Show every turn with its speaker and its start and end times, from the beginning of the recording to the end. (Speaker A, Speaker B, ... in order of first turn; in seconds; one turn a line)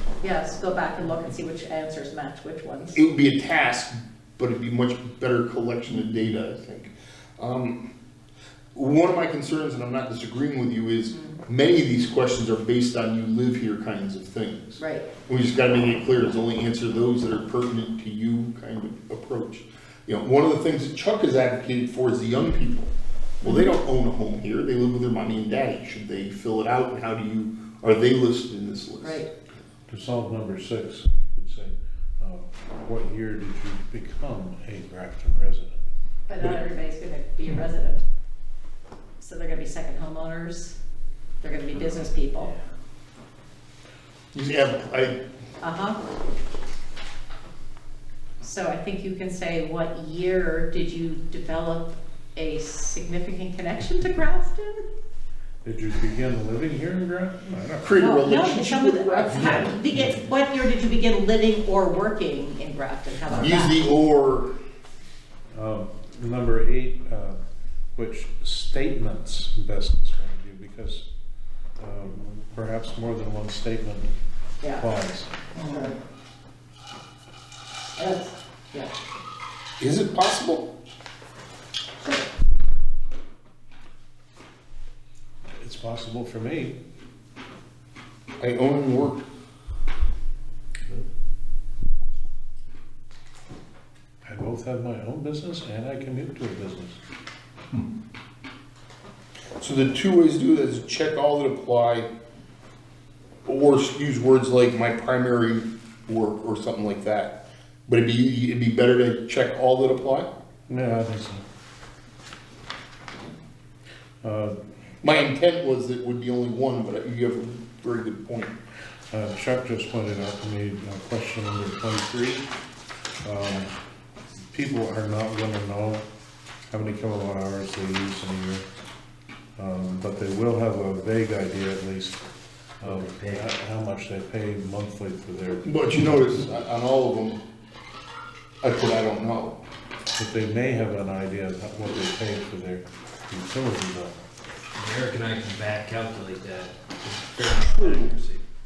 Speaker A: 0.2-3.0
Speaker B: 2.9-7.9
Speaker B: 8.8-22.9
Speaker A: 11.1-11.4
Speaker A: 14.8-15.1
Speaker B: 23.4-29.3
Speaker A: 23.4-23.7
Speaker A: 29.0-29.3
Speaker C: 29.9-35.8
Speaker A: 36.3-38.0
Speaker A: 39.2-40.8
Speaker A: 41.4-42.5
Speaker B: 44.3-45.2
Speaker A: 45.6-46.0
Speaker A: 48.4-54.9
Speaker C: 55.6-57.9
Speaker B: 57.8-59.8
Speaker A: 57.9-63.8
Speaker B: 63.3-64.5
Speaker C: 65.5-67.4
Speaker C: 68.0-71.1
Speaker C: 71.8-74.1
Speaker A: 74.6-74.9
Speaker C: 74.7-75.3
Speaker A: 75.6-76.0
Speaker A: 78.0-78.9
Speaker B: 79.8-80.7
Speaker C: 85.6-86.8
Speaker B: 88.4-89.2
Speaker C: 94.2-97.0
Speaker B: 99.6-102.1
Speaker B: 103.5-110.3
Speaker C: 110.7-111.4
Speaker C: 114.2-114.6
Speaker B: 115.0-118.6
Speaker C: 119.1-122.5
Speaker C: 123.2-123.7
Speaker C: 124.5-126.0
Speaker C: 126.7-128.6
Speaker C: 129.6-132.2
Speaker D: 132.8-133.4
Speaker C: 132.8-135.7
Speaker B: 135.7-137.4
Speaker B: 138.6-139.6
Speaker C: 140.2-144.2
Speaker D: 144.7-148.4